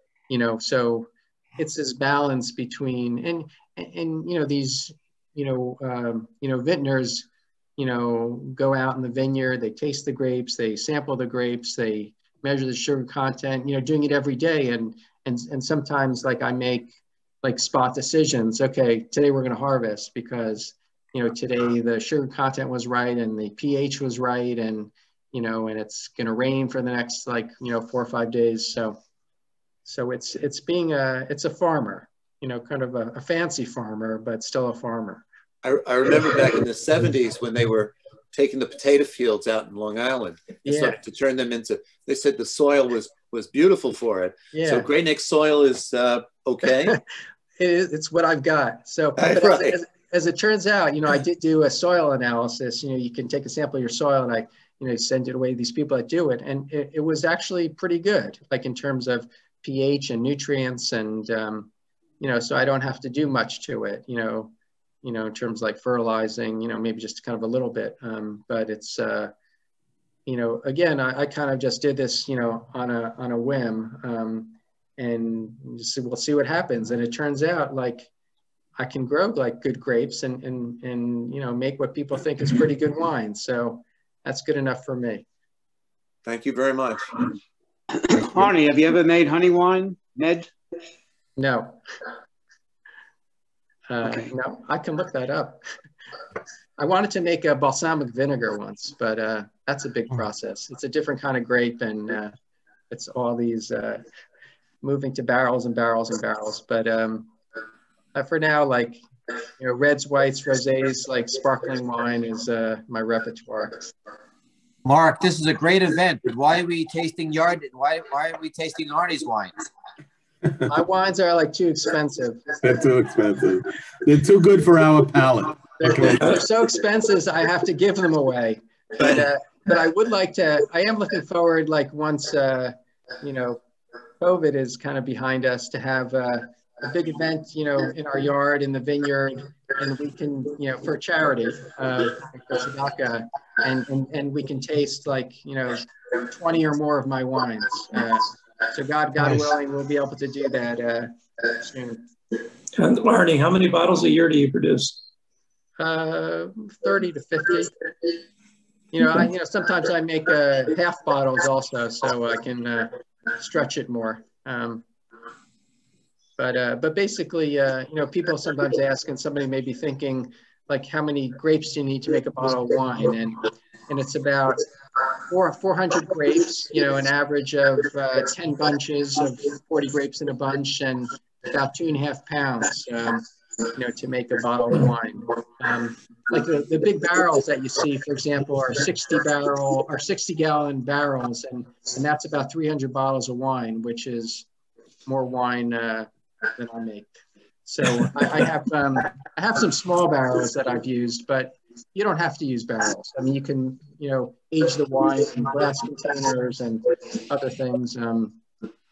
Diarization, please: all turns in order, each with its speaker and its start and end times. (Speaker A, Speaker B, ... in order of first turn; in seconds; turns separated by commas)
Speaker A: 0.3-29.0, Speaker A: 29.9-35.2, Speaker B: 35.6-47.0, Speaker A: 40.6-41.0, Speaker A: 44.5-44.9, Speaker A: 47.6-64.5, Speaker B: 49.2-49.8, Speaker A: 65.0-69.3, Speaker A: 70.2-78.1, Speaker A: 78.8-85.2, Speaker B: 86.2-87.2, Speaker C: 88.1-90.5, Speaker A: 91.4-91.8, Speaker A: 93.9-95.6, Speaker A: 96.8-102.3, Speaker A: 102.9-104.0, Speaker A: 104.8-107.3, Speaker A: 108.1-109.0, Speaker A: 109.6-113.9, Speaker D: 114.8-119.5, Speaker A: 120.7-122.4, Speaker E: 122.6-126.3, Speaker A: 125.8-133.6, Speaker A: 134.2-152.0, Speaker F: 152.8-155.0, Speaker A: 155.8-157.7, Speaker A: 158.9-164.8, Speaker A: 166.4-174.6, Speaker A: 175.3-194.5, Speaker A: 195.1-197.1, Speaker A: 197.7-208.4